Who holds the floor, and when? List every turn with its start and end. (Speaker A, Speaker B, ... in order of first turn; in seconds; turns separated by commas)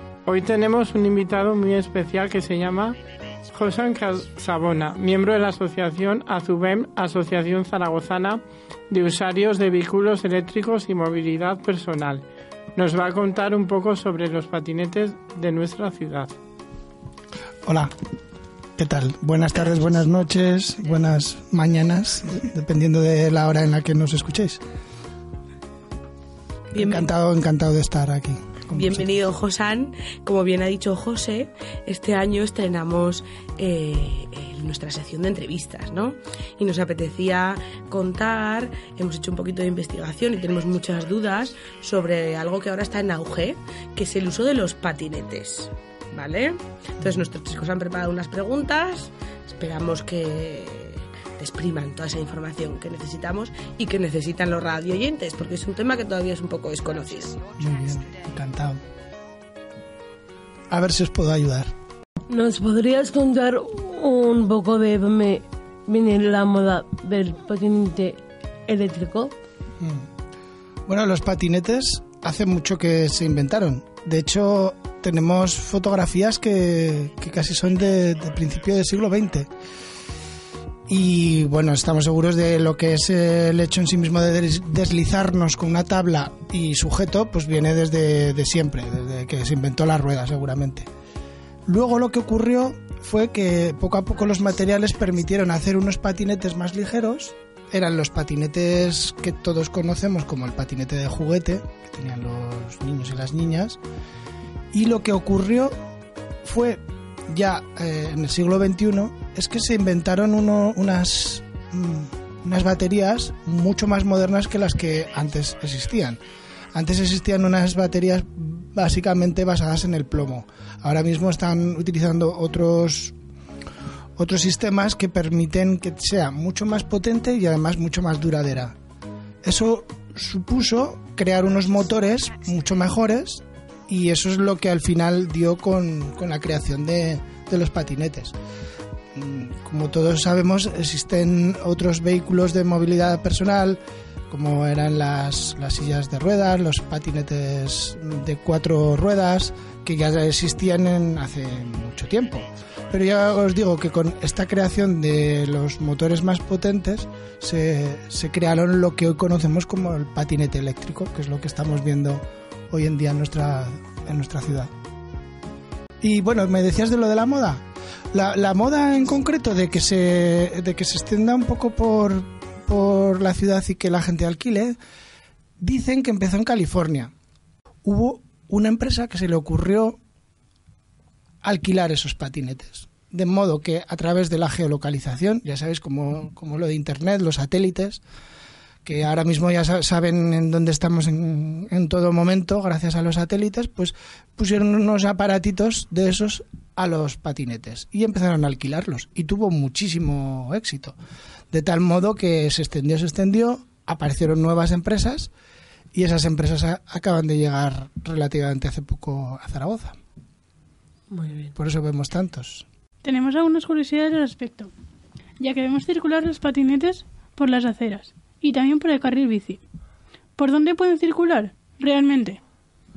Speaker A: 0.2-3.0, Speaker A: 3.5-12.2, Speaker A: 12.7-16.3, Speaker B: 17.6-17.9, Speaker B: 18.8-24.6, Speaker C: 26.7-27.1, Speaker B: 26.7-29.1, Speaker C: 28.7-57.5, Speaker B: 57.5-58.8, Speaker B: 60.7-61.7, Speaker D: 62.3-69.3, Speaker B: 69.8-70.1, Speaker B: 70.8-79.5, Speaker B: 80.9-90.9, Speaker B: 91.7-103.8, Speaker B: 104.7-105.7, Speaker B: 106.4-116.2, Speaker B: 116.7-123.2, Speaker B: 124.2-128.8, Speaker B: 129.4-138.3, Speaker B: 139.1-164.7, Speaker B: 166.0-174.8, Speaker B: 175.6-177.1, Speaker B: 177.8-180.0, Speaker B: 181.4-188.0, Speaker B: 188.8-200.9, Speaker B: 201.5-205.3, Speaker B: 205.9-210.0, Speaker D: 211.1-211.5, Speaker B: 211.5-212.7, Speaker E: 213.0-214.7, Speaker E: 215.4-219.6, Speaker E: 220.4-222.4